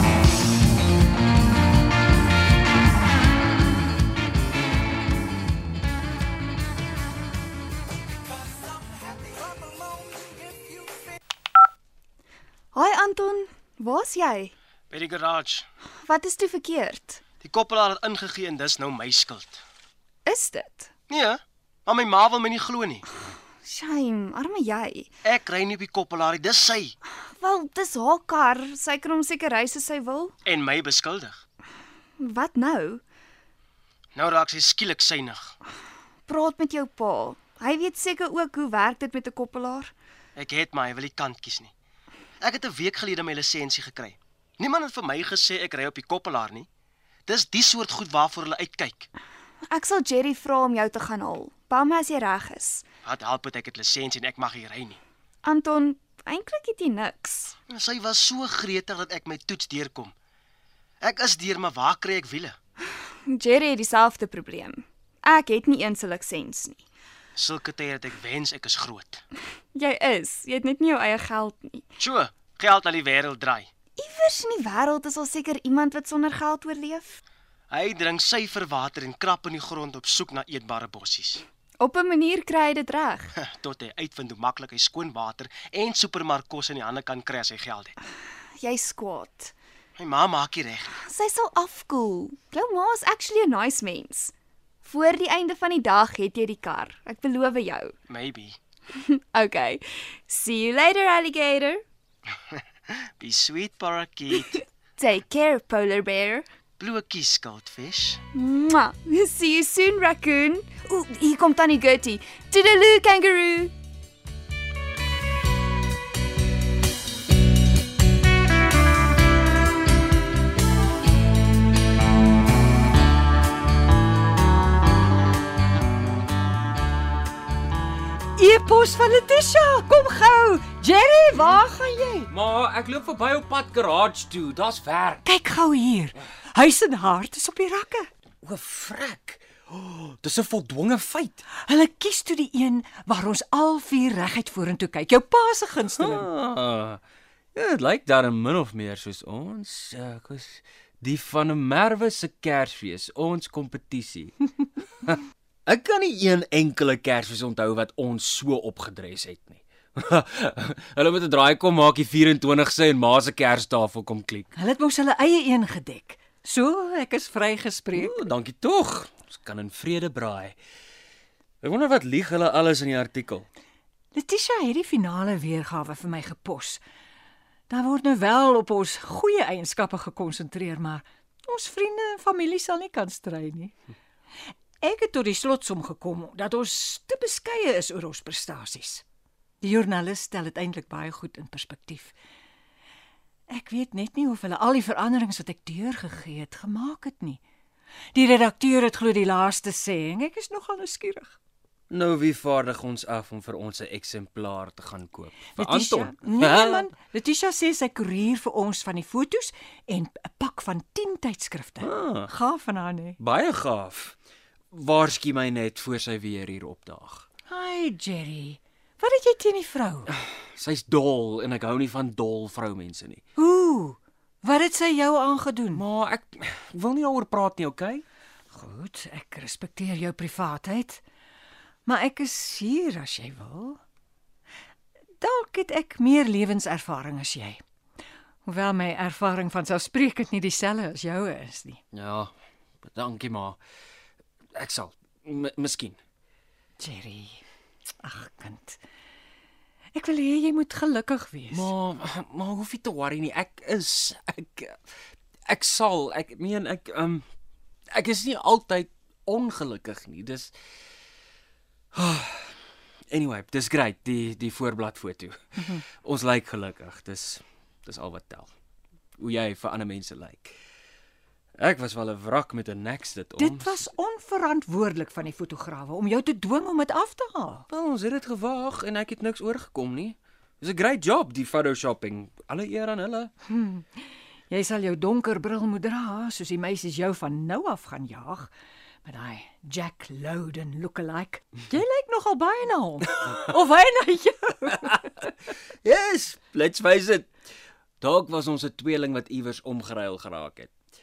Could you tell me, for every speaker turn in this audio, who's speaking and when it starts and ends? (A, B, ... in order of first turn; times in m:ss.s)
0:12.7-0:14.5 A
0:14.9-0:15.7 B
0:16.0-0:17.2 A
0:17.4-0:19.6 B
0:20.2-0:20.9 A
0:21.1-0:23.0 B
0:23.2-0:25.1 A
0:25.2-0:27.0 B
0:27.1-0:30.3 A
0:30.4-0:31.4 B
0:32.2-0:33.0 A
0:34.1-0:35.5 B
0:36.3-0:39.9 A
0:40.4-0:41.7 B
0:42.4-0:46.7 B
0:47.3-0:49.1 B
0:49.6-0:52.8 A
0:53.0-0:55.0 B
0:55.4-0:57.6 A
0:57.7-1:00.1 B
1:01.0-1:02.6 B
1:02.8-1:06.8 A
1:07.4-1:09.2 B
1:09.7-1:11.9 A
1:12.0-1:13.7 B
1:14.0-1:17.2 A
1:17.7-1:21.4 B
1:21.8-1:23.3 A
1:23.4-1:27.9 B
1:28.6-1:29.5 A
1:30.0-1:30.9 B
1:31.0-1:34.3 A
1:34.8-1:37.9 A
1:38.1-1:38.6 B
1:38.9-1:41.8 A
1:42.5-1:44.6 B
1:45.0-1:46.4 A
1:46.8-1:48.2 B
1:48.3-1:53.7 A
2:08.4-2:12.3 C
2:12.3-2:15.2 D
2:15.2-2:18.1 C
2:18.4-2:21.4 D
2:21.5-2:26.3 C
2:26.0-2:27.0 D
2:27.5-2:34.5 D
2:35.0-2:44.5 D
2:44.5-2:48.2 C
2:47.9-2:50.5 D
2:51.6-2:53.4 D
2:54.1-2:56.8 C
2:57.7-3:03.7 C
3:04.8-3:09.0 C
3:09.6-3:12.1 C
3:13.5-3:17.4 C
3:18.1-3:21.4 C
3:21.9-3:26.9 D
3:25.6-3:33.2 C
3:31.8-3:32.3 D
3:33.2-3:34.1 D
3:34.7-3:37.3 D
3:37.5-3:40.1 C
3:40.1-3:43.2 D
3:43.4-3:45.8 C
3:45.7-3:48.0 D
3:48.5-3:51.0 C
3:51.8-3:53.8 C
3:55.2-3:57.6 C
3:58.4-4:01.8 C
4:01.9-4:03.6 D
4:04.5-4:06.0 D
4:06.8-4:07.4 C
4:08.0-4:08.8 C
4:09.9-4:11.7 C
4:11.5-4:14.8 D
4:15.4-4:17.2 D
4:17.9-4:20.5 D
4:21.9-4:22.6 D
4:23.1-4:28.5 D
4:29.2-4:30.6 D
4:31.6-4:33.9 D
4:33.4-4:37.6 C
4:37.7-4:43.3 D
4:43.5-4:48.5 C
4:49.0-4:55.3 C
4:55.8-4:57.3 D
4:58.0-5:00.7 D